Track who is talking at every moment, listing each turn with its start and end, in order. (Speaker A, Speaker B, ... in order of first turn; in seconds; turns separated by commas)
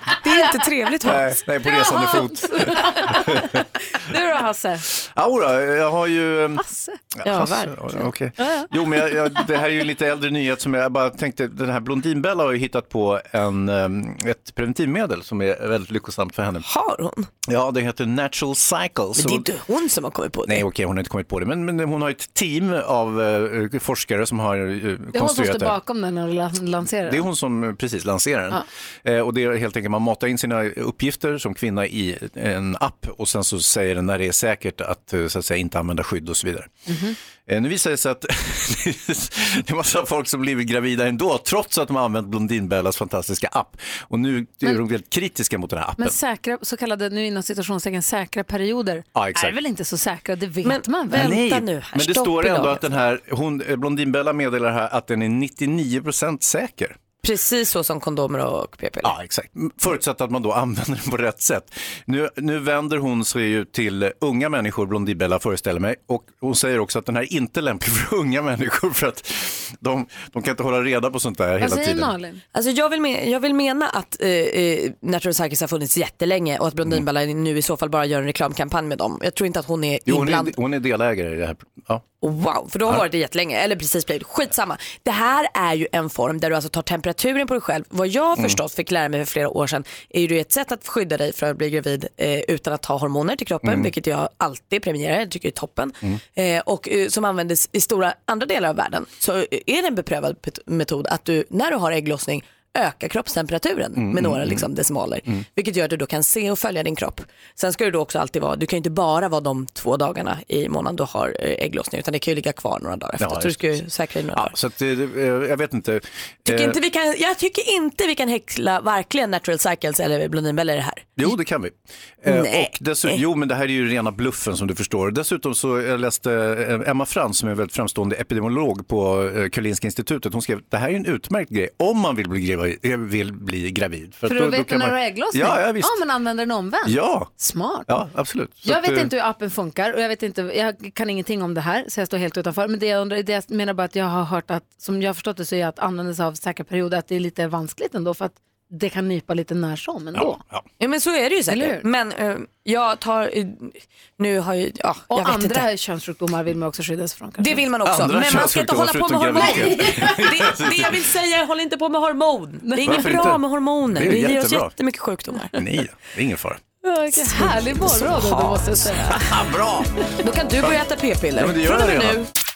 Speaker A: 0.1-1.3, Speaker B: 1.0-3.6, Speaker C: 1.6-4.8, Speaker B: 4.9-6.6, Speaker C: 6.6-8.7, Speaker B: 7.2-16.6, Speaker A: 16.7-17.3, Speaker B: 17.4-19.5, Speaker A: 19.1-20.6, Speaker B: 20.5-25.7, Speaker C: 25.1-27.2, Speaker B: 27.1-36.7, Speaker C: 36.9-37.1, Speaker B: 37.5-46.1, Speaker C: 46.0-51.3, Speaker B: 49.1-49.5, Speaker A: 50.6-52.8, Speaker B: 51.1-57.0, Speaker A: 57.2-59.1, Speaker B: 59.0-72.1, Speaker C: 71.6-72.4, Speaker A: 72.5-80.5, Speaker B: 80.0-82.0, Speaker A: 82.2-114.5, Speaker B: 93.6-93.9, Speaker B: 104.0-104.6, Speaker B: 113.2-113.8, Speaker B: 114.3-116.8, Speaker A: 116.5-121.3, Speaker B: 121.2-136.0, Speaker A: 122.2-123.2, Speaker C: 134.2-137.9, Speaker B: 136.8-137.3, Speaker B: 137.9-139.1, Speaker C: 138.6-150.4, Speaker B: 150.2-150.6, Speaker A: 150.8-155.7, Speaker C: 151.5-151.8, Speaker C: 155.1-157.6, Speaker A: 157.4-165.6, Speaker B: 157.8-161.1, Speaker C: 159.4-160.2, Speaker C: 162.7-162.9, Speaker B: 162.8-163.4, Speaker B: 163.9-164.7, Speaker B: 165.5-166.6, Speaker C: 166.8-169.3, Speaker A: 167.1-169.3, Speaker B: 169.2-169.9, Speaker A: 170.2-172.3, Speaker B: 171.3-172.3